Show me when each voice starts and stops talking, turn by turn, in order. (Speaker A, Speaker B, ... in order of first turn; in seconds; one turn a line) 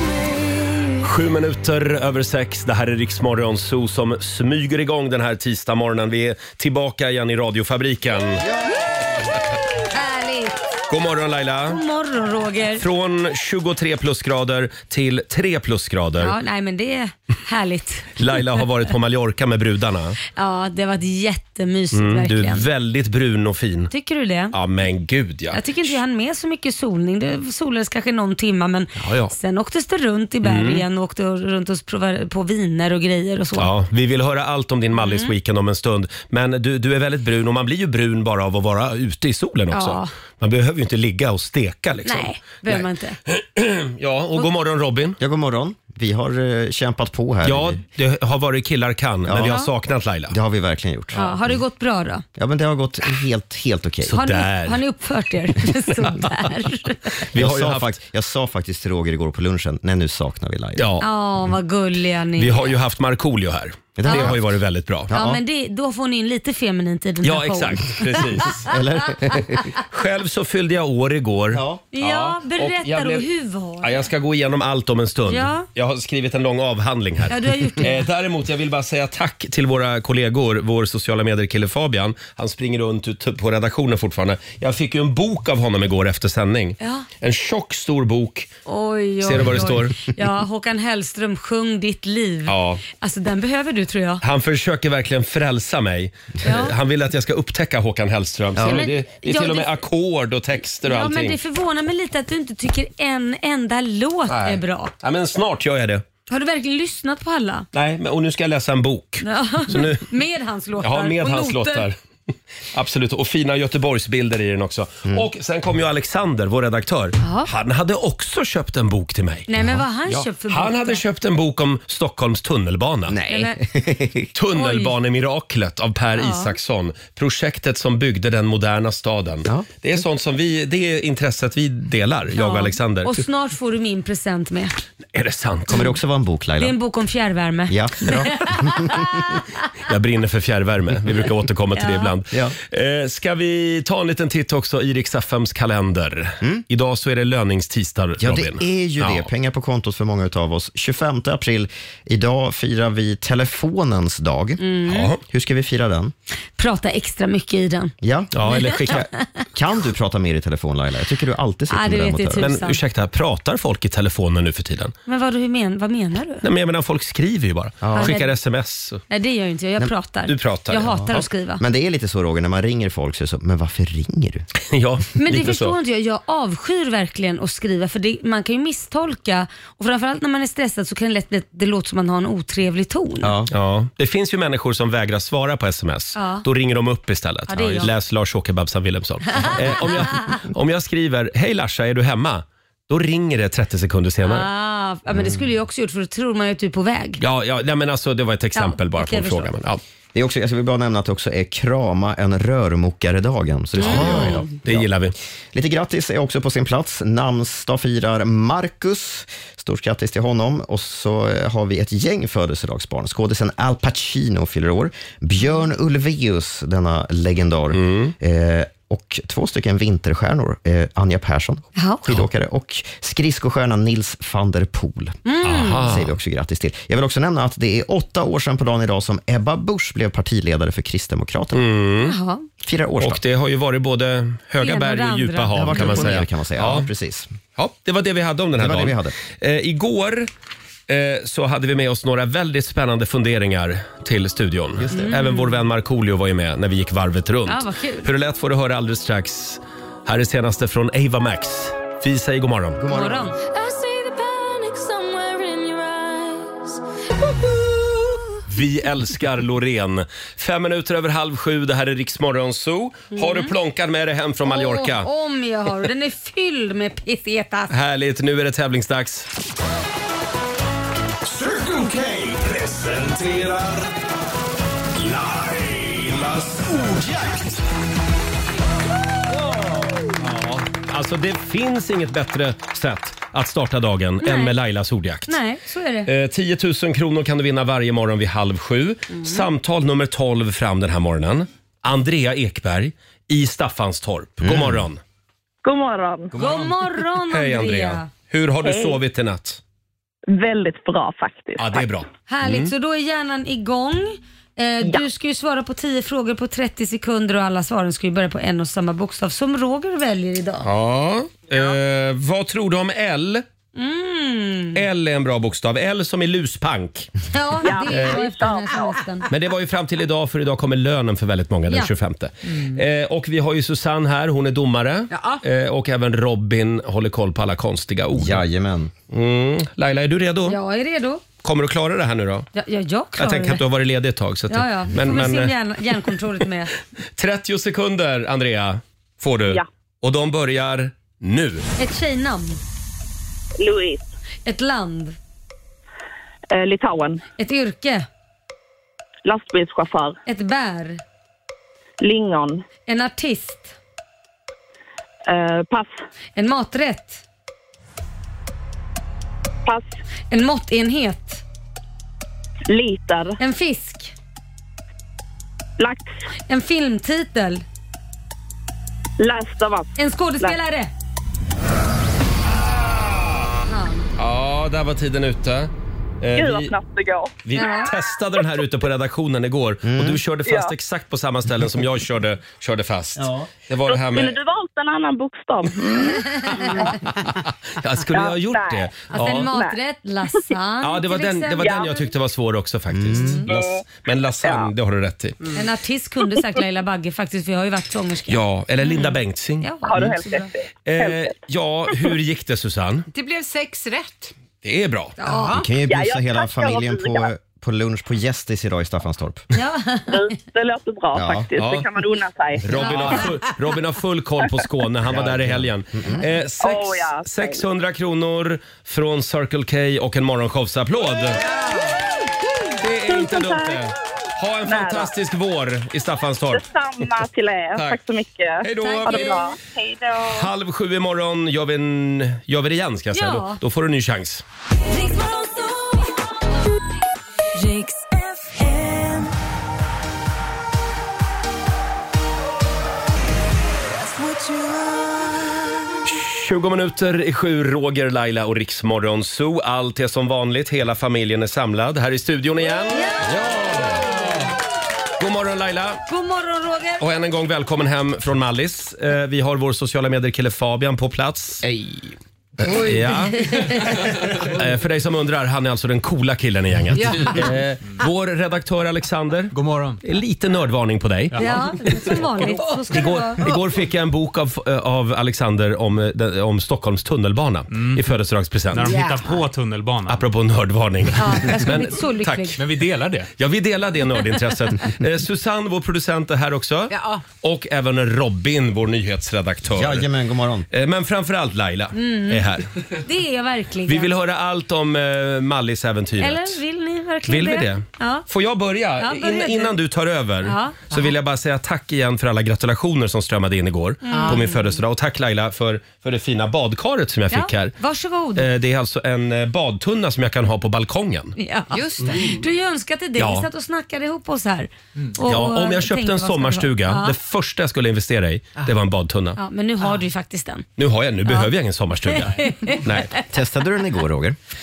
Speaker A: 1.0-8.4
Speaker B: 8.4-8.8
Speaker C: 9.9-10.6
Speaker A: 10.9-11.8
Speaker C: 11.7-12.8
Speaker A: 12.8-16.3
Speaker C: 16.2-18.6
Speaker A: 18.2-20.2
Speaker C: 20.4-22.6
Speaker A: 21.9-23.9
Speaker C: 23.9-24.6
Speaker A: 24.5-26.0
Speaker C: 25.5-33.7
Speaker A: 29.0-29.3
Speaker A: 30.4-30.8
Speaker A: 33.5-45.2
Speaker C: 34.9-35.3
Speaker C: 39.7-40.1
Speaker C: 42.0-43.2
Speaker B: 45.2-47.8
Speaker A: 47.4-50.4
Speaker B: 49.2-49.6
Speaker B: 50.3-51.3
Speaker C: 51.1-52.2
Speaker B: 52.4-54.2
Speaker C: 54.1-57.2
Speaker A: 54.1-54.8
Speaker A: 57.3-57.9
Speaker B: 57.3-60.8
Speaker A: 60.8-61.0
Speaker C: 61.0-62.7
Speaker A: 62.4-65.1
Speaker B: 64.0-64.5
Speaker C: 64.0-64.3
Speaker B: 65.1-65.4
Speaker C: 65.1-68.5
Speaker A: 67.2-68.6
Speaker B: 68.7-69.7
Speaker A: 69.9-73.2
Speaker B: 71.5-71.8
Speaker C: 71.9-74.0
Speaker A: 73.8-88.5
Speaker C: 75.3-75.7
Speaker C: 77.3-78.0
Speaker C: 86.8-87.0
Speaker C: 88.7-94.2
Speaker A: 89.2-89.9
Speaker A: 92.5-92.8
Speaker A: 94.2-101.4
Speaker C: 96.4-96.7
Speaker B: 98.5-98.9
Speaker C: 98.6-99.7
Speaker C: 100.8-104.9
Speaker A: 104.3-106.0
Speaker C: 106.3-107.7
Speaker A: 107.7-110.1
Speaker C: 109.2-111.9
Speaker A: 110.8-112.0
Speaker A: 112.7-119.5
Speaker C: 117.2-117.5
Speaker C: 119.5-121.0
Speaker A: 120.1-123.2
Speaker B: 123.1-124.3
Speaker C: 123.3-123.6
Speaker A: 124.3-133.2
Speaker C: 124.5-124.9
Speaker C: 126.2-126.5
Speaker C: 132.3-134.8
Speaker A: 135.1-135.9
Speaker B: 135.7-136.8
Speaker C: 136.6-139.5
Speaker B: 137.7-139.1
Speaker A: 139.9-149.2
Speaker C: 141.7-142.1
Speaker B: 142.3-142.6
Speaker B: 148.2-156.1
Speaker C: 154.6-155.1
Speaker A: 154.9-155.2
Speaker C: 156.6-157.9
Speaker B: 158.0-162.5
Speaker A: 158.3-159.1
Speaker C: 161.7-162.8
Speaker A: 162.4-164.9
Speaker C: 165.1-166.4
Speaker A: 166.4-169.0
Speaker B: 167.8-168.1
Speaker C: 167.9-168.4
Speaker C: 169.1-171.6
Speaker A: 170.3-171.0
Speaker B: 171.1-174.4
Speaker A: 174.7-175.8
Speaker C: 175.2-183.3
Speaker B: 183.2-183.5
Speaker A: 183.5-194.5
Speaker C: 186.2-186.4
Speaker C: 187.5-187.9
Speaker C: 194.2-197.2
Speaker B: 195.1-195.5
Speaker A: 197.2-199.8
Speaker C: 198.6-199.6
Speaker B: 200.1-204.9
Speaker C: 203.8-204.5
Speaker A: 203.8-205.1
Speaker B: 205.5-225.2
Speaker A: 217.7-218.1
Speaker C: 221.8-222.0
Speaker C: 225.2-225.9
Speaker A: 225.4-226.1
Speaker B: 225.8-231.6
Speaker A: 231.5-232.2
Speaker C: 232.1-232.4
Speaker B: 232.6-233.2
Speaker A: 233.0-236.9
Speaker C: 234.6-236.2
Speaker B: 235.5-237.3
Speaker A: 237.6-240.3
Speaker B: 238.6-239.2
Speaker A: 240.9-252.8
Speaker B: 244.8-245.2
Speaker C: 244.9-245.5
Speaker C: 247.4-248.1
Speaker B: 252.8-253.3
Speaker C: 252.9-253.4
Speaker D: 253.4-256.7
Speaker A: 258.5-265.1
Speaker C: 263.1-263.5
Speaker C: 264.4-267.7
Speaker A: 267.7-269.3
Speaker E: 271.2-273.9
Speaker E: 274.9-277.6
Speaker A: 280.1-285.4
Speaker C: 284.2-284.5
Speaker C: 285.3-286.1
Speaker A: 286.1-295.0
Speaker B: 294.4-294.8
Speaker F: 295.6-296.3
Speaker C: 296.3-298.1
Speaker A: 297.3-299.6
Speaker F: 298.6-298.9
Speaker F: 300.3-301.9
Speaker A: 301.6-302.7
Speaker C: 302.3-310.7
Speaker A: 310.6-313.4
Speaker C: 313.7-314.8
Speaker A: 314.7-317.1
Speaker C: 317.3-319.2
Speaker F: 317.6-318.9
Speaker A: 317.9-318.2
Speaker A: 319.3-328.4
Speaker G: 325.1-325.4
Speaker B: 328.1-328.9
Speaker A: 329.1-330.6
Speaker C: 330.5-331.2
Speaker A: 331.4-332.5
Speaker C: 332.5-333.6
Speaker A: 333.2-335.5
Speaker C: 334.5-336.7
Speaker A: 337.1-341.6
Speaker C: 341.8-342.6
Speaker F: 343.6-344.1
Speaker C: 344.4-345.2
Speaker F: 346.5-347.2
Speaker C: 347.4-348.1
Speaker F: 349.2-350.2
Speaker C: 350.2-351.0
Speaker F: 352.0-352.6
Speaker C: 352.9-353.7
Speaker F: 355.3-355.9
Speaker C: 356.4-357.2
Speaker F: 359.6-360.0
Speaker C: 360.3-361.4
Speaker F: 362.7-363.4
Speaker C: 363.4-364.1
Speaker F: 365.8-366.2
Speaker C: 366.5-367.6
Speaker F: 369.2-370.6
Speaker C: 370.0-370.9
Speaker C: 373.7-374.1
Speaker A: 374.2-376.7
Speaker F: 376.3-377.9
Speaker A: 377.4-384.4
Speaker C: 377.6-377.9
Speaker B: 379.8-380.2
Speaker F: 380.4-380.7
Speaker B: 383.2-383.5
Speaker F: 383.9-387.0
Speaker A: 387.2-389.5
Speaker F: 388.1-389.7
Speaker C: 389.1-391.8
Speaker A: 390.8-395.4
Speaker F: 391.6-391.9
Speaker B: 392.9-393.4
Speaker C: 393.2-393.4
Speaker F: 394.4-394.7
Speaker C: 395.5-400.5
Speaker A: 398.3-400.1
Speaker F: 399.9-401.3
Speaker A: 400.8-403.1
Speaker G: 403.1-404.3
Speaker A: 404.6-405.2
Speaker C: 405.2-405.5
Speaker G: 405.2-405.7
Speaker B: 405.5-409.4
Speaker F: 405.8-407.3
Speaker C: 409.5-410.3
Speaker F: 410.1-413.2
Speaker B: 411.1-411.5
Speaker A: 411.6-411.8
Speaker A: 412.6-421.4
Speaker C: 412.8-413.2
Speaker B: 415.1-416.2
Speaker F: 416.6-417.6
Speaker G: 421.4-421.9
Speaker A: 422.8-426.6
Speaker F: 423.1-423.8
Speaker F: 424.6-425.1
Speaker F: 426.5-430.5
Speaker A: 428.6-429.4
Speaker C: 428.8-429.4
Speaker A: 430.3-434.4
Speaker C: 433.1-433.6
Speaker D: 434.9-435.9
Speaker C: 437.6-438.1
Speaker D: 438.6-438.9
Speaker A: 446.1-454.5
Speaker C: 452.9-454.1
Speaker A: 455.2-456.0
Speaker C: 456.1-457.0
Speaker A: 457.0-461.7
Speaker G: 462.6-463.2
Speaker A: 462.7-471.4
Speaker C: 463.4-463.9
Speaker G: 466.9-467.6
Speaker H: 469.5-470.0
Speaker H: 471.3-472.2
Speaker C: 471.4-473.4
Speaker A: 472.9-479.0
Speaker H: 478.7-480.2
Speaker G: 478.8-479.4
Speaker A: 480.1-482.7
Speaker C: 481.2-482.6
Speaker H: 482.6-483.3
Speaker A: 483.4-490.1
Speaker G: 486.9-487.2
Speaker B: 489.7-490.7
Speaker A: 490.7-492.6
Speaker C: 491.9-492.5
Speaker C: 493.0-494.1
Speaker A: 493.9-496.6
Speaker C: 496.2-498.3
Speaker A: 497.3-507.7
Speaker C: 499.0-499.8
Speaker C: 500.4-500.8
Speaker C: 504.0-504.5
Speaker G: 504.1-504.5
Speaker C: 507.3-508.5
Speaker A: 508.4-511.3
Speaker C: 511.4-517.1
Speaker G: 511.7-512.4
Speaker A: 513.2-513.5
Speaker A: 515.2-519.4
Speaker C: 519.4-520.6
Speaker A: 520.8-523.1
Speaker C: 522.1-523.2
Speaker B: 523.2-524.4